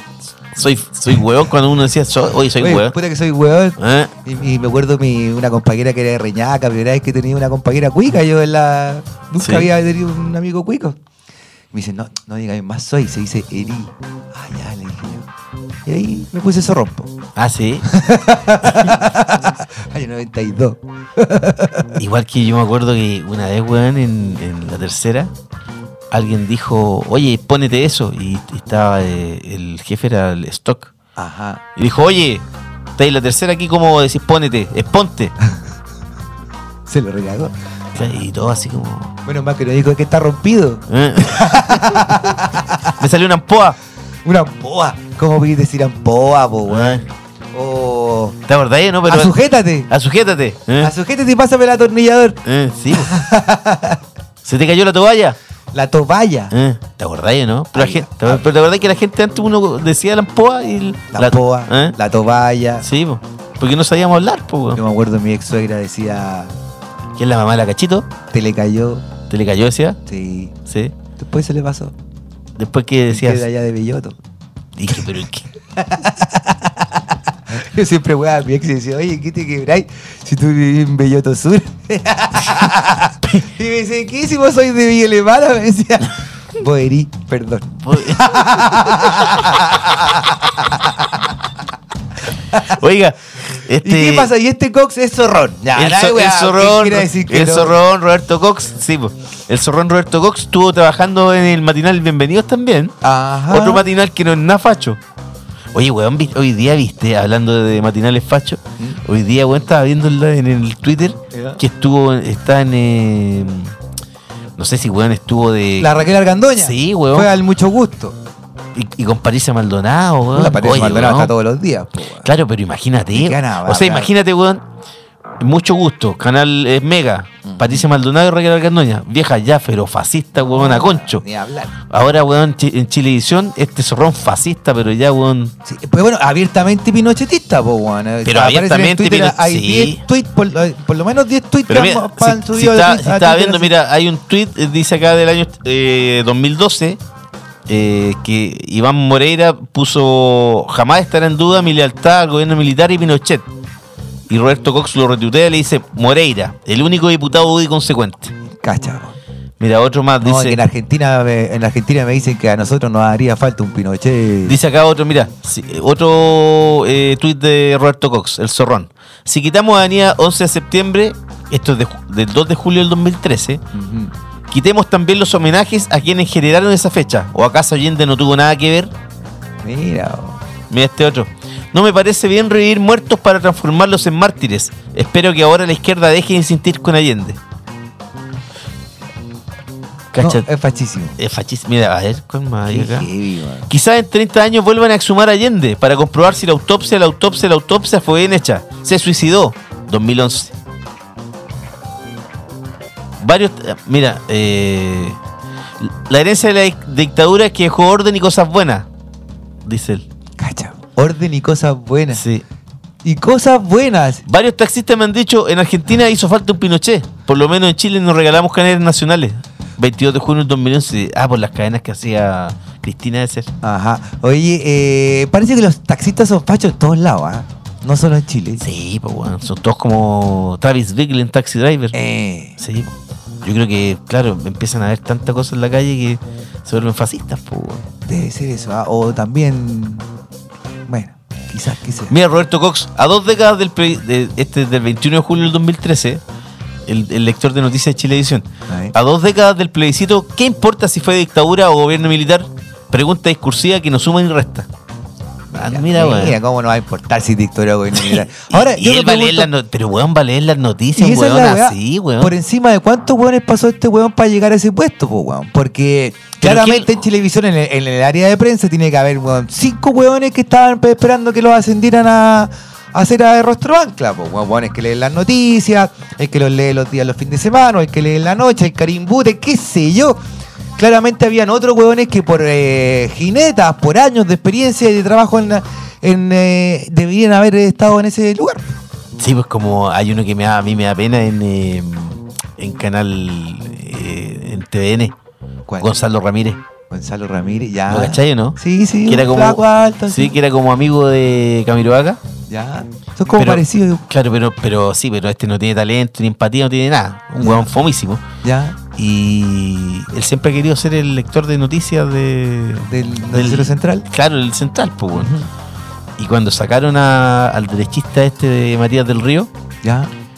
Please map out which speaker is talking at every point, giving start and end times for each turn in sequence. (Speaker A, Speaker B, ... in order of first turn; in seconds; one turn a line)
Speaker A: 0.6-3.0
Speaker B: 2.6-11.0
Speaker A: 3.8-4.1
Speaker A: 9.4-9.7
Speaker B: 11.7-15.3
Speaker B: 15.8-17.1
Speaker A: 17.4-17.9
Speaker B: 17.9-21.9
Speaker A: 18.6-19.0
Speaker A: 22.0-25.3
Speaker A: 26.1-30.9
Speaker B: 31.1-31.6
Speaker A: 31.8-32.4
Speaker A: 33.0-35.3
Speaker B: 36.9-38.1
Speaker A: 37.9-39.1
Speaker B: 39.2-43.0
Speaker A: 40.9-43.8
Speaker B: 44.2-48.4
Speaker A: 46.7-47.0
Speaker A: 48.5-49.3
Speaker B: 49.0-49.9
Speaker A: 49.9-50.9
Speaker B: 50.8-52.4
Speaker A: 52.4-53.1
Speaker B: 52.9-54.0
Speaker A: 54.4-55.4
Speaker B: 55.7-56.5
Speaker A: 56.5-62.0
Speaker B: 57.7-58.5
Speaker B: 61.1-62.8
Speaker A: 62.8-64.8
Speaker B: 64.7-66.5
Speaker A: 67.2-68.1
Speaker B: 68.3-69.0
Speaker A: 69.3-70.0
Speaker B: 70.0-70.5
Speaker A: 70.7-70.9
Speaker B: 71.2-71.9
Speaker A: 72.6-73.4
Speaker B: 73.1-74.2
Speaker A: 74.8-75.5
Speaker B: 75.7-91.2
Speaker A: 87.8-89.5
Speaker A: 92.6-94.3
Speaker B: 93.8-97.8
Speaker A: 95.8-102.9
Speaker B: 103.0-103.8
Speaker A: 103.5-105.0
Speaker A: 105.7-113.7
Speaker B: 111.3-111.6
Speaker A: 114.6-116.0
Speaker B: 115.8-118.2
Speaker A: 116.5-117.3
Speaker A: 118.7-121.3
Speaker B: 120.3-122.3
Speaker A: 122.2-124.6
Speaker B: 123.1-124.1
Speaker A: 125.4-131.2
Speaker B: 127.4-127.8
Speaker B: 130.3-131.7
Speaker A: 131.9-135.5
Speaker B: 135.6-143.7
Speaker A: 138.2-140.0
Speaker A: 141.7-147.0
Speaker A: 147.7-153.4
Speaker A: 154.3-158.3
Speaker B: 158.6-159.2
Speaker A: 159.6-160.6
Speaker B: 160.2-164.6
Speaker A: 164.4-173.6
Speaker B: 173.7-174.1
Speaker A: 174.5-178.9
Speaker B: 179.6-180.4
Speaker A: 180.7-187.4
Speaker A: 190.1-190.4
Speaker B: 190.2-191.2
Speaker A: 191.2-193.1
Speaker B: 192.7-193.7
Speaker A: 193.7-200.5
Speaker A: 203.2-205.2
Speaker A: 205.8-208.8
Speaker A: 209.7-210.0
Speaker B: 210.4-212.2
Speaker A: 212.1-212.4
Speaker B: 213.0-214.2
Speaker A: 214.2-223.5
Speaker B: 223.6-228.6
Speaker A: 228.6-231.9
Speaker B: 231.9-232.6
Speaker A: 232.6-237.9
Speaker B: 238.1-240.1
Speaker B: 240.9-242.1
Speaker A: 242.1-246.2
Speaker A: 246.9-254.7
Speaker B: 248.7-248.9
Speaker A: 255.5-256.4
Speaker B: 255.5-259.5
Speaker A: 257.9-262.3
Speaker B: 260.9-280.2
Speaker A: 266.4-266.9
Speaker B: 280.8-288.8
Speaker A: 289.2-295.1
Speaker A: 295.8-296.6
Speaker B: 296.9-300.4
Speaker A: 297.9-302.2
Speaker B: 302.5-304.0
Speaker A: 303.3-308.2
Speaker B: 307.4-307.7
Speaker B: 308.4-308.8
Speaker A: 308.9-315.4
Speaker B: 312.9-314.1
Speaker B: 315.1-315.5
Speaker A: 316.2-319.5
Speaker B: 319.8-320.1